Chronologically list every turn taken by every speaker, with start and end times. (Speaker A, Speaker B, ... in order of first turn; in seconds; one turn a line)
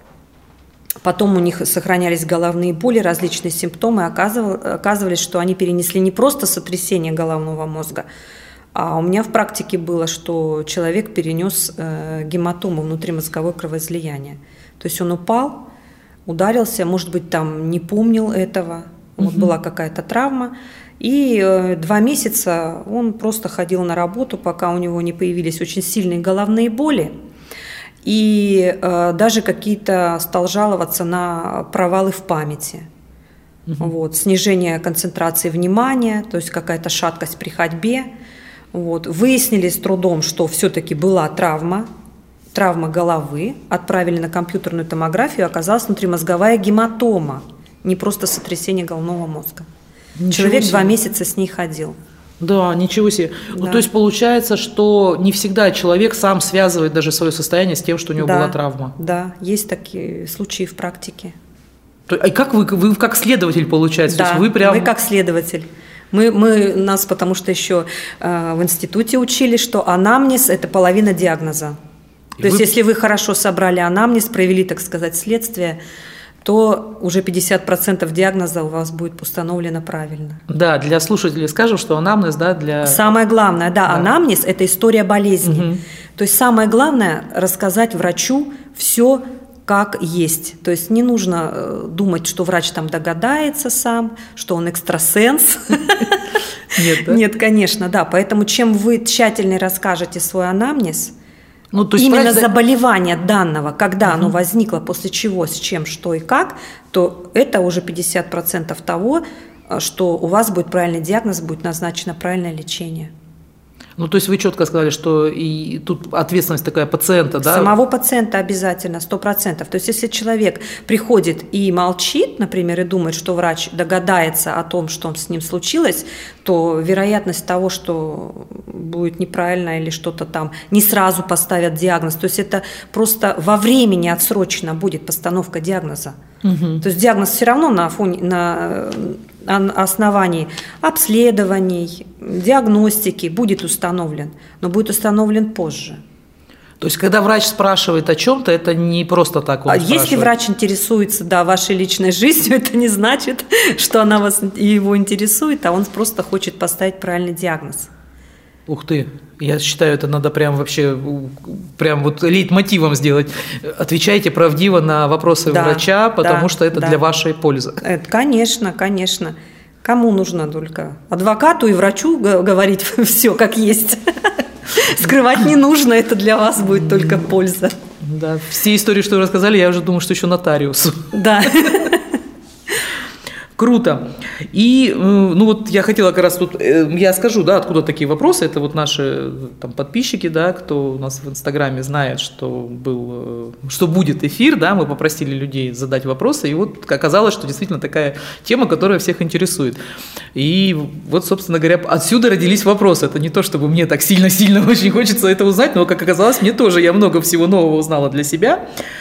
Speaker A: 1.0-8.1
Speaker A: 8.7-15.7
Speaker A: 16.2-27.1
Speaker B: 19.2-19.5
Speaker A: 28.0-32.9
Speaker A: 33.8-38.1
Speaker A: 38.7-41.9
Speaker A: 42.5-49.7
Speaker B: 50.2-50.9
Speaker A: 50.3-52.0
Speaker B: 52.4-58.9
Speaker A: 53.5-53.8
Speaker A: 58.2-61.3
Speaker B: 62.1-64.9
Speaker A: 64.1-71.8
Speaker A: 72.4-75.8
Speaker A: 76.4-80.4
Speaker B: 80.5-83.1
Speaker A: 82.8-96.3
Speaker B: 85.4-85.8
Speaker B: 96.7-97.2
Speaker A: 97.0-101.1
Speaker B: 101.7-102.5
Speaker A: 102.0-113.1
Speaker B: 114.0-117.7
Speaker A: 117.4-136.2
Speaker B: 136.4-136.8
Speaker A: 136.8-146.0
Speaker B: 146.8-150.3
Speaker A: 149.7-157.9
Speaker B: 158.7-167.8
Speaker A: 165.5-167.0
Speaker A: 167.8-174.0
Speaker A: 174.7-177.8
Speaker B: 176.6-177.3
Speaker B: 178.0-181.9
Speaker A: 181.1-182.1
Speaker B: 183.6-199.8
Speaker B: 200.3-208.7